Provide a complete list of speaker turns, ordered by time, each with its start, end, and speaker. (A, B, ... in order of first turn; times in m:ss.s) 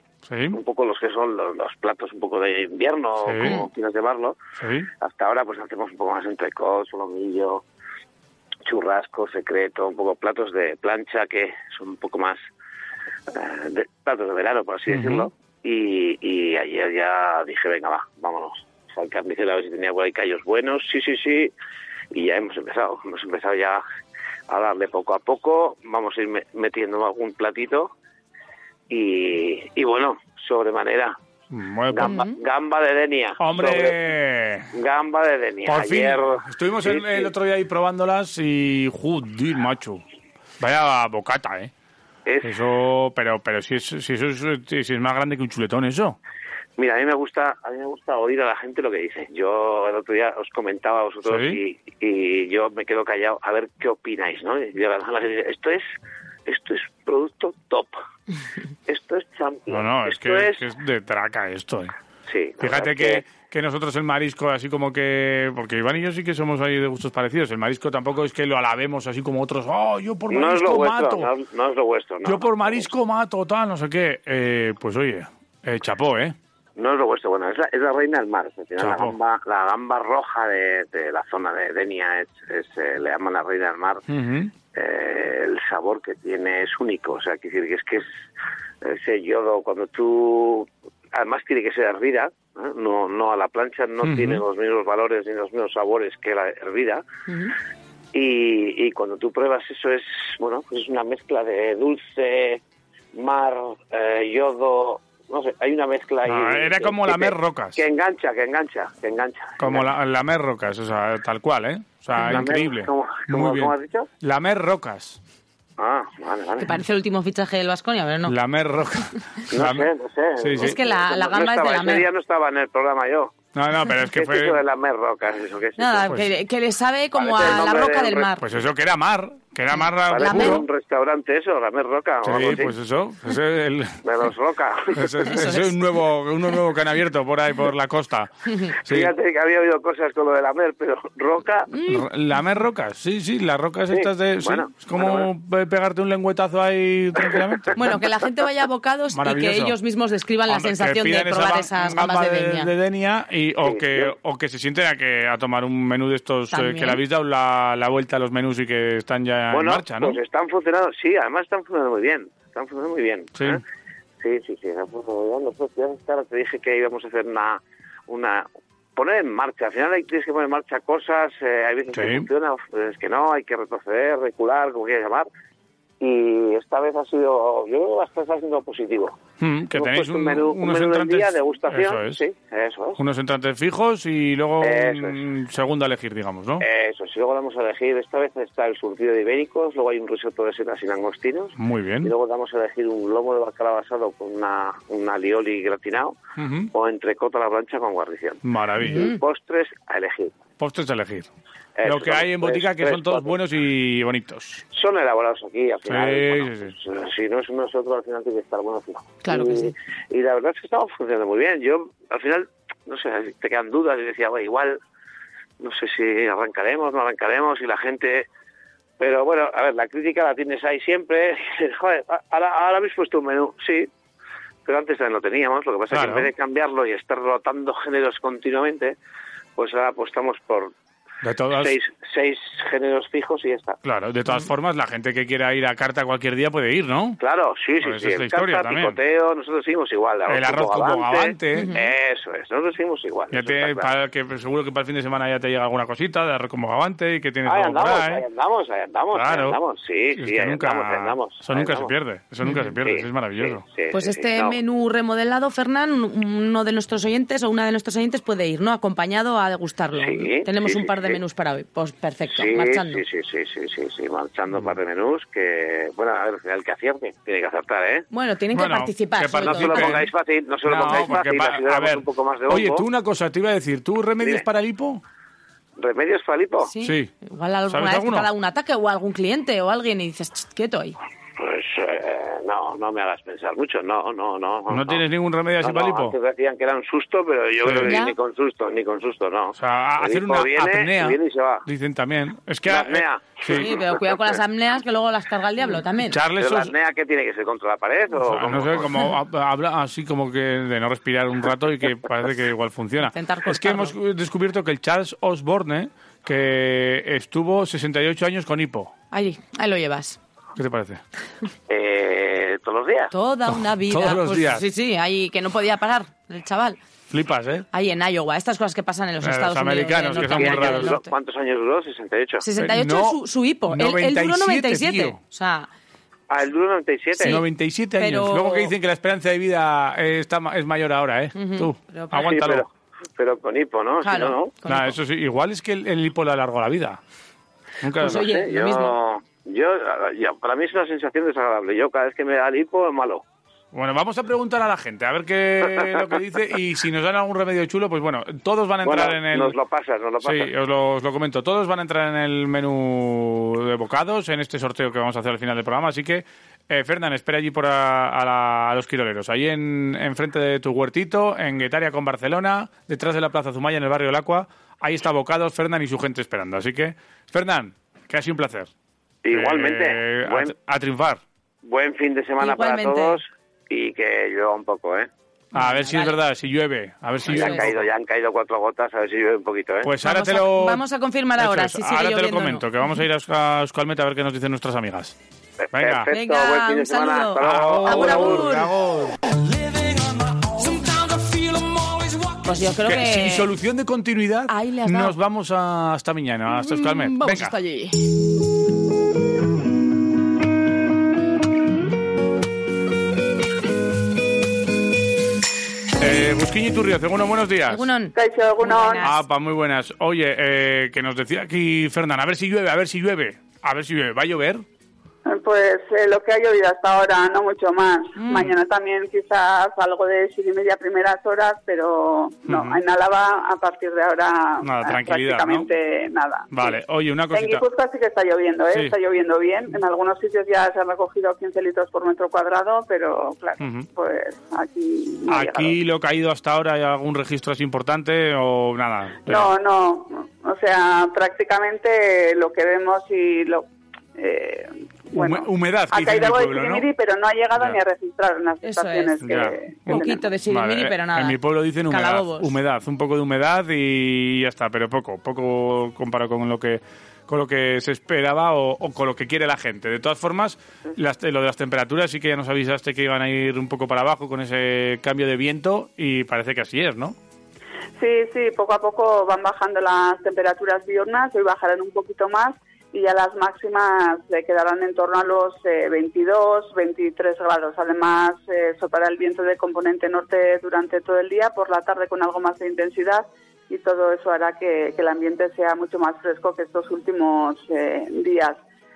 0:00.3-0:00.6 A
0:00.5-0:04.4 B
0:03.2-0:03.6 A
0:04.6-0:04.9 A
0:05.0-0:07.6 B
0:08.6-0:12.4 B
0:13.3-0:21.5 B
0:14.9-0:15.3 A
0:22.1-0:23.8 B
0:24.5-0:27.9 B
0:28.9-0:31.2 B
0:31.5-0:32.2 A
0:31.9-0:34.0 B
0:32.0-0:32.3 C
0:33.4-0:34.7 A
0:34.7-0:37.3 B
0:35.6-0:40.0 A
0:40.6-0:41.7 A
0:42.4-0:46.2 A
0:46.8-0:55.8 B
0:51.2-0:51.6 A
0:56.4-0:58.0 B
0:58.9-1:00.6 B
0:59.7-1:01.9 A
1:02.3-1:03.2 B
1:02.6-1:11.3 A
1:10.3-1:12.9 B
1:12.2-1:16.4 A
1:16.8-1:24.0 B
1:18.8-1:19.2 A
1:24.1-1:24.5 A
1:24.7-1:28.1 B
1:28.8-1:37.0 B
1:34.0-1:34.4 A
1:37.3-1:37.5 C
1:38.1-1:42.6 B
1:43.1-1:49.8 B
1:46.2-1:47.8 A
1:49.6-1:55.2 A
1:52.2-1:54.1 B
1:55.8-1:56.8 B
1:56.6-1:58.3 C
1:58.2-2:00.8 A
1:59.5-2:03.3 B
2:00.6-2:02.0 C
2:03.5-2:04.6 A
2:04.1-2:06.1 B
2:05.8-2:08.4 C
2:07.1-2:08.3 B
2:08.4-2:10.7 A
2:10.1-2:12.7 B
2:10.2-2:10.6 C
2:12.2-2:14.0 A
2:14.0-2:15.4 B
2:14.9-2:18.3 A
2:15.3-2:15.6 C
2:18.8-2:19.1 A
2:18.9-2:21.7 B
2:21.7-2:22.0 C
2:21.9-2:27.8 A
2:23.9-2:25.3 B
2:27.8-2:32.7 C
2:29.1-2:29.7 A
2:30.5-2:40.2 A
2:33.6-2:34.1 B
2:36.5-2:37.0 C
2:39.5-2:43.6 B
2:44.2-2:55.3 B
2:51.9-2:52.3 A
2:56.0-2:59.2 B
2:59.4-3:02.2 A
2:59.7-3:03.0 B
3:03.0-3:06.6 A
3:04.6-3:05.2 B
3:06.6-3:16.2 B
3:11.6-3:12.1 A
3:16.4-3:16.7 A
3:16.7-3:20.3 B
3:18.4-3:19.1 A
3:18.8-3:19.2 C
3:20.6-3:21.3 A
3:21.8-3:23.4 B
3:21.8-3:24.6 A
3:24.7-3:34.8 B
3:25.9-3:26.7 A
3:29.2-3:29.7 C
3:35.6-3:38.3 B
3:39.0-3:43.9 B
3:44.6-3:49.0 B
3:45.9-3:46.3 A
3:49.6-3:50.7 B
3:51.2-3:51.7 A
3:51.5-3:53.8 B
3:53.8-3:57.2 A
3:57.2-4:03.9 B
3:57.8-3:59.0 A
4:00.3-4:01.7 A
4:01.5-4:01.9 C
4:03.3-4:08.2 A
4:07.4-4:11.9 B
4:09.1-4:09.6 A
4:10.2-4:13.6 A
4:12.8-4:14.6 B
4:13.9-4:23.0 C
4:20.0-4:21.2 B
4:22.3-4:28.0 B
4:28.1-4:30.0 C
4:28.5-4:30.1 A
4:29.5-4:32.8 B
4:30.6-4:35.0 A
4:35.8-4:36.7 B
4:36.7-4:41.0 C
4:36.8-4:37.1 A
4:37.7-4:38.3 A
4:41.4-4:45.0 B
4:44.7-4:46.1 A
4:45.6-4:51.6 B
4:47.6-4:48.0 A
4:47.8-4:48.1 C
4:49.5-4:53.7 A
4:52.7-4:54.2 B
4:53.5-4:56.2 C
4:56.0-4:56.7 A
4:56.4-4:59.0 B
4:58.2-5:08.9 A
5:03.1-5:03.9 C
5:09.1-5:10.2 C
5:10.6-5:11.0 A
5:11.7-5:13.1 B
5:13.1-5:16.8 C
5:13.9-5:14.6 A
5:17.1-5:17.6 A
5:17.7-5:21.1 C
5:19.2-5:21.0 A
5:20.2-5:22.4 B
5:22.4-5:25.7 C
5:22.6-5:23.2 A
5:23.7-5:25.2 A
5:26.3-5:27.4 B
5:27.2-5:27.4 C
5:27.2-5:32.6 A
5:28.0-5:28.7 C
5:31.3-5:32.2 C
5:32.2-5:34.5 B
5:34.0-5:34.9 C
5:34.7-5:37.0 A
5:37.8-5:38.3 A
5:38.0-5:38.9 C
5:38.0-5:43.2 B
5:43.7-5:49.5 A
5:48.8-5:50.5 B
5:50.2-6:08.7 A
6:09.2-6:10.5 B
6:09.3-6:11.2 A
6:11.6-6:15.1 B
6:12.4-6:13.2 C
6:15.5-6:16.2 C
6:15.5-6:17.9 A
6:17.2-6:19.9 B
6:17.3-6:17.6 C
6:19.8-6:20.8 A
6:20.0-6:22.9 C
6:21.4-6:25.2 A
6:25.7-6:26.1 A
6:25.7-6:28.5 B
6:26.1-6:28.7 C
6:27.4-6:29.2 A
6:29.3-6:32.5 D
6:32.4-6:33.5 C
6:32.8-6:37.5 A
6:34.5-6:35.2 C
6:36.5-6:38.0 C
6:46.0-6:47.9 A
6:47.7-6:49.1 C
6:48.1-6:49.1 E
6:49.0-6:54.6 A
6:55.2-7:06.8 E
6:58.2-6:58.5 C
7:02.5-7:02.8 A
7:04.6-7:05.7 A
7:06.5-7:07.6 A
7:07.3-7:15.7 E
7:13.6-7:13.9 A
7:15.3-7:19.5 A
7:19.2-7:30.2 E
7:25.1-7:26.9 A
7:28.6-7:31.4 C
7:29.2-7:47.1 A
7:31.9-7:32.5 C
7:48.0-8:08.6 E